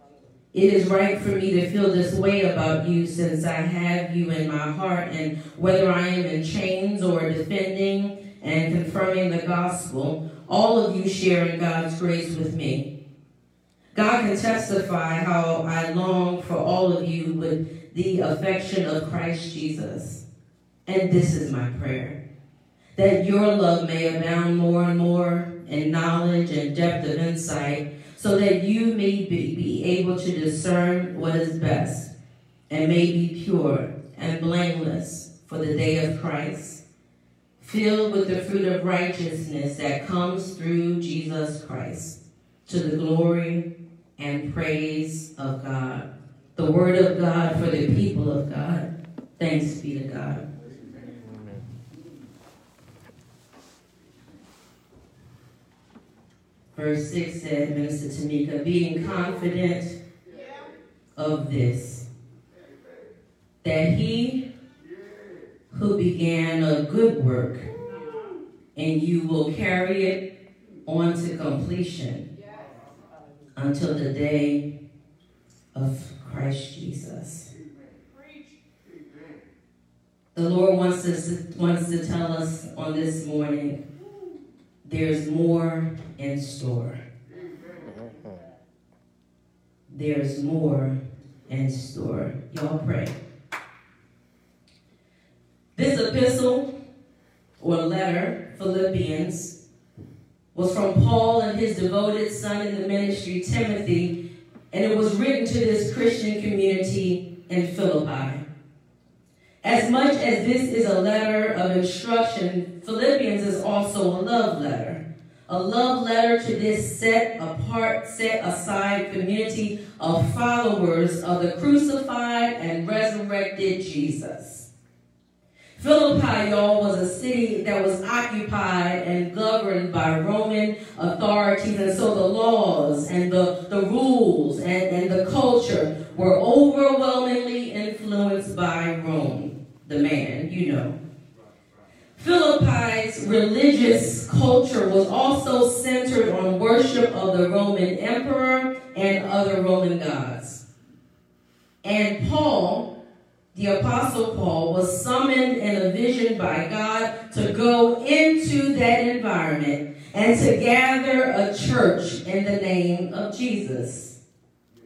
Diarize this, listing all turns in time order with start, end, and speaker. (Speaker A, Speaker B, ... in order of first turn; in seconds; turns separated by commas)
Speaker A: 0.5-12.9, Speaker A: 13.9-20.2, Speaker A: 20.9-22.2, Speaker A: 23.0-32.1, Speaker A: 32.7-36.8, Speaker A: 37.6-42.2, Speaker A: 42.7-43.7, Speaker A: 44.2-50.4, Speaker A: 56.8-60.0, Speaker A: 61.2-62.0, Speaker A: 63.6-64.5, Speaker A: 65.7-67.7, Speaker A: 68.8-70.2, Speaker A: 70.9-72.2, Speaker A: 73.6-74.7, Speaker A: 75.8-77.5, Speaker A: 80.3-83.8, Speaker A: 84.8-87.0, Speaker A: 89.9-91.0, Speaker A: 91.5-93.1, Speaker A: 95.8-96.7, Speaker A: 97.6-99.5, Speaker A: 100.5-104.1, Speaker A: 104.7-108.4, Speaker A: 109.6-124.7, Speaker A: 125.8-141.0, Speaker A: 142.2-150.6, Speaker A: 151.8-152.9, Speaker A: 153.5-164.2